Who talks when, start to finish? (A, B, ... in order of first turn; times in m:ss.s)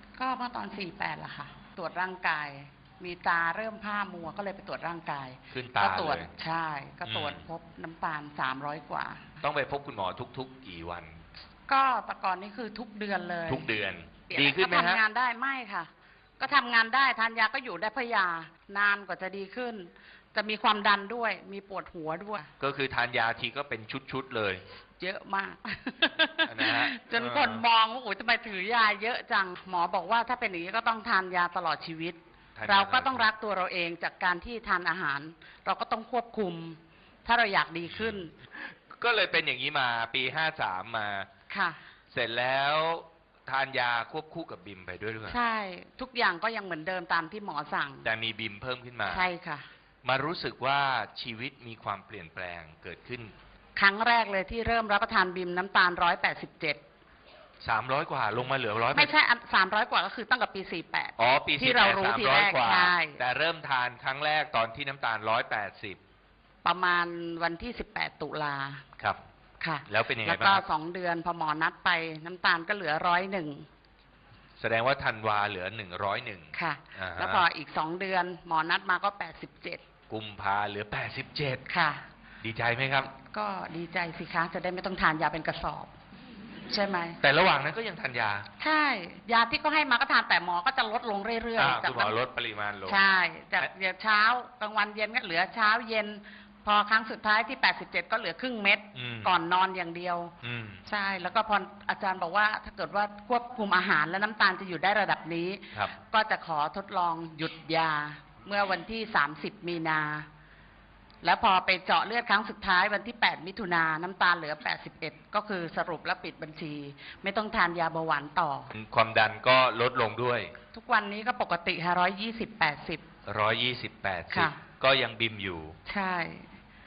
0:00.2-0:09.2 A
0:05.5-0:06.3 B
0:07.0-0:07.4 B
0:09.4-0:11.2 B
0:11.7-0:13.7 A
0:13.5-0:15.0 B
0:14.3-0:22.5 A
0:22.6-0:24.6 B
0:25.0-0:38.3 A
0:26.4-0:27.6 B
0:32.6-0:33.3 B
0:37.9-0:41.3 B
0:41.5-0:41.8 A
0:42.1-0:45.4 B
0:45.3-0:48.1 A
0:48.0-0:49.3 B
0:49.1-0:49.7 A
0:50.0-0:53.3 B
0:53.8-0:56.8 A
0:57.6-0:59.1 B
0:58.9-1:03.2 A
1:01.2-1:06.0 B
1:06.6-1:08.8 A
1:09.6-1:13.7 A
1:09.8-1:10.6 B
1:14.6-1:17.4 B
1:16.5-1:19.8 A
1:20.1-1:21.6 B
1:21.7-1:22.0 A
1:22.4-1:23.1 B
1:23.2-1:25.9 A
1:26.7-1:27.2 A
1:27.2-1:28.5 B
1:28.6-1:32.2 A
1:31.6-1:33.0 B
1:32.8-1:40.3 A
1:38.9-1:39.3 B
1:40.4-1:40.8 B
1:40.8-1:50.3 A
1:51.2-1:58.7 A
1:58.7-2:00.5 B
2:00.7-2:03.0 A
2:03.2-2:05.8 B
2:04.3-2:04.6 A
2:05.9-2:06.5 A